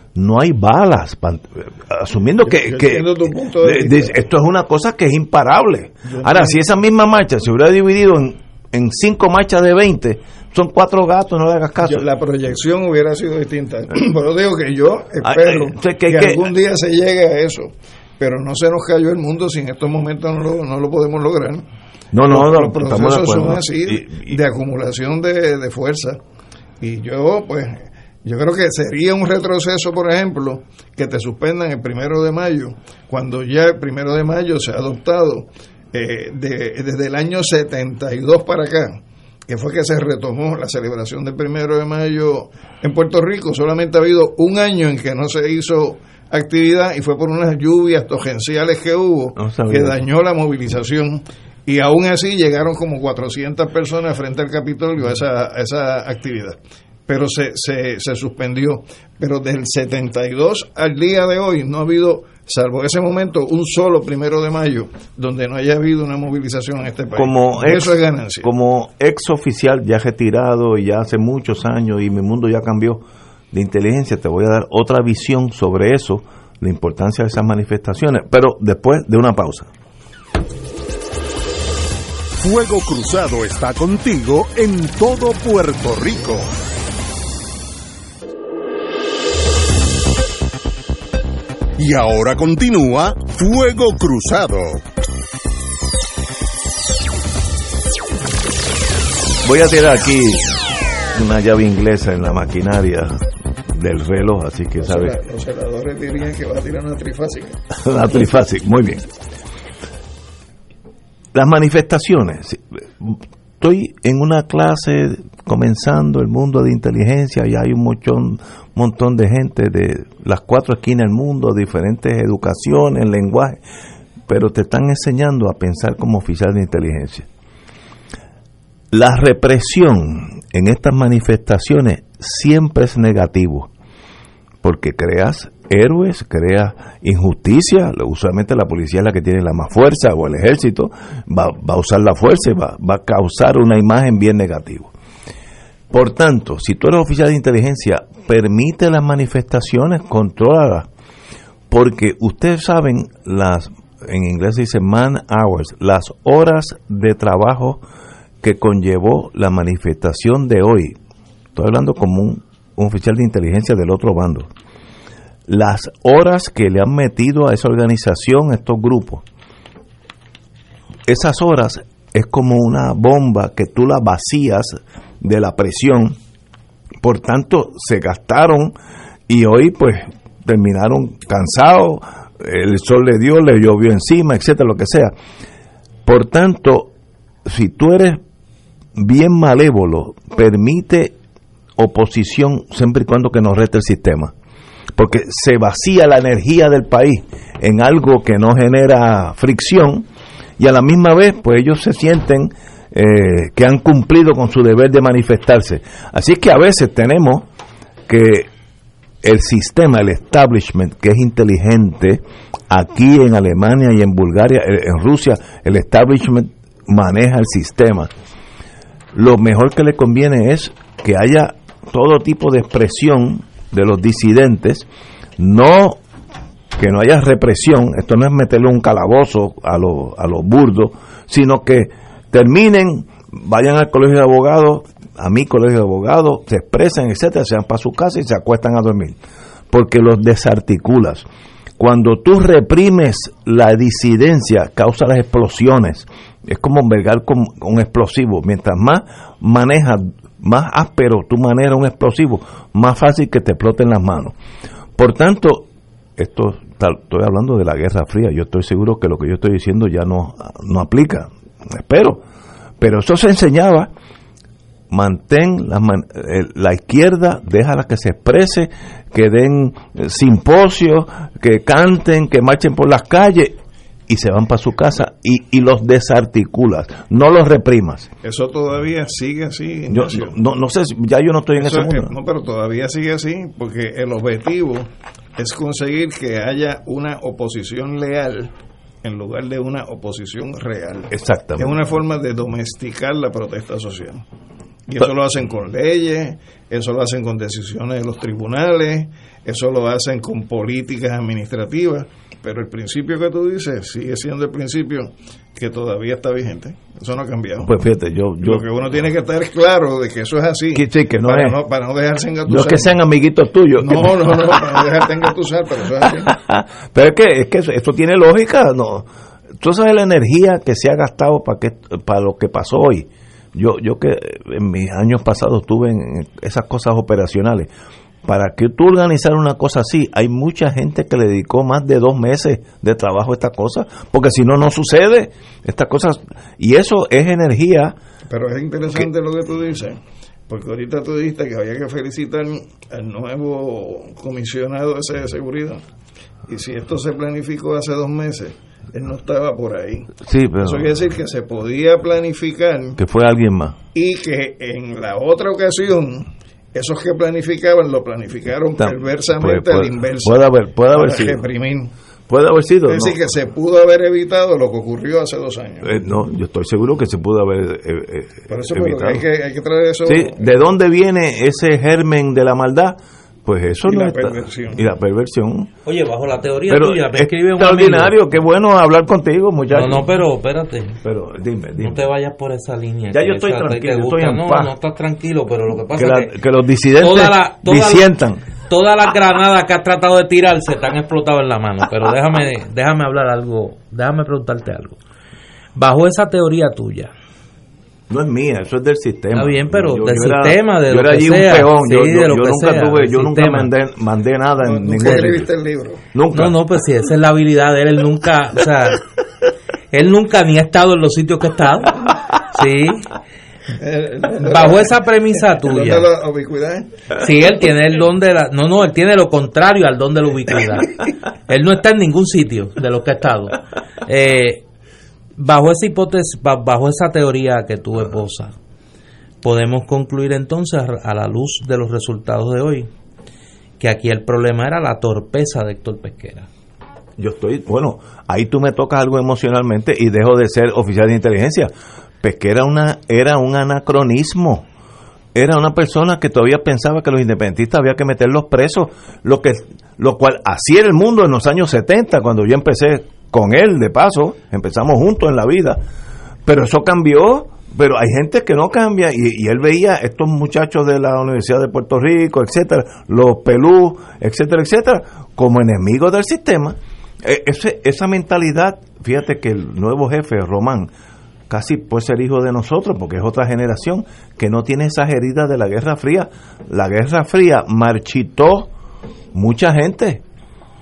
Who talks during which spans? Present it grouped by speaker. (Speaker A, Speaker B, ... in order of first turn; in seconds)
Speaker A: 0.1-12.1, 15.2-16.5, 22.1-24.4, 49.4-50.0, 67.2-79.7, 99.4-100.6, 101.1-103.2, 103.7-105.1, 107.7-109.0, 111.3-123.6, 124.3-127.3, 128.9-133.7, 134.6-144.9, 145.9-150.9, 151.7-157.8, 158.4-160.9, 161.6-164.5, 165.5-169.2, 171.1-176.2, 177.0-178.8, 179.3-185.1, 186.1-186.9, 187.5-188.2, 189.0-191.1, 191.8-194.3, 195.0-200.1, 200.6-207.5, 208.1-208.5, 209.2-218.1, 219.1-224.9, 225.4-226.0, 226.8-239.2, 239.7-241.3, 241.8-254.4, 255.0-262.2, 262.8-263.9, 264.9-273.6, 274.1-278.1, 279.9-282.1, 291.1-291.8, 307.6-308.6, 310.7-311.6, 312.5-315.0, 316.2-319.1, 319.6-327.7, 328.2-338.0, 350.2-350.9, 353.0-353.8, 358.8-361.4, 362.3-363.2, 365.8-369.2, 370.1-375.7, 376.7-380.1, 381.0-382.1, 383.1-384.7, 385.9-388.4, 398.1-405.5, 406.1-406.6, 437.2-441.7, 442.2-444.6, 445.4-455.8, 456.5-470.9, 471.5-478.7, 479.3-480.2
Speaker B: 2.5-4.1, 6.0-6.6, 11.8-21.6, 22.3-26.2, 26.8-68.5, 104.8-107.6, 278.2-280.4, 281.6-288.5, 289.0-294.2, 294.9-307.7, 308.4-312.9, 313.8-316.3, 338.3-340.0, 340.5-345.8, 346.5-353.0, 353.9-361.9, 362.9-366.0, 368.5-370.5, 373.9-374.8, 404.6-406.0, 413.8-416.9
Speaker C: 82.4-86.5, 91.8-94.8
Speaker D: 375.9-378.2, 379.7-381.0, 381.8-386.3, 387.0-388.1, 388.7-395.0, 395.8-397.1, 399.4-403.7, 406.3-409.0, 409.9-413.1, 414.5-416.1, 417.2-421.0, 421.5-424.6, 425.4-428.5, 429.4-432.9, 433.8-436.5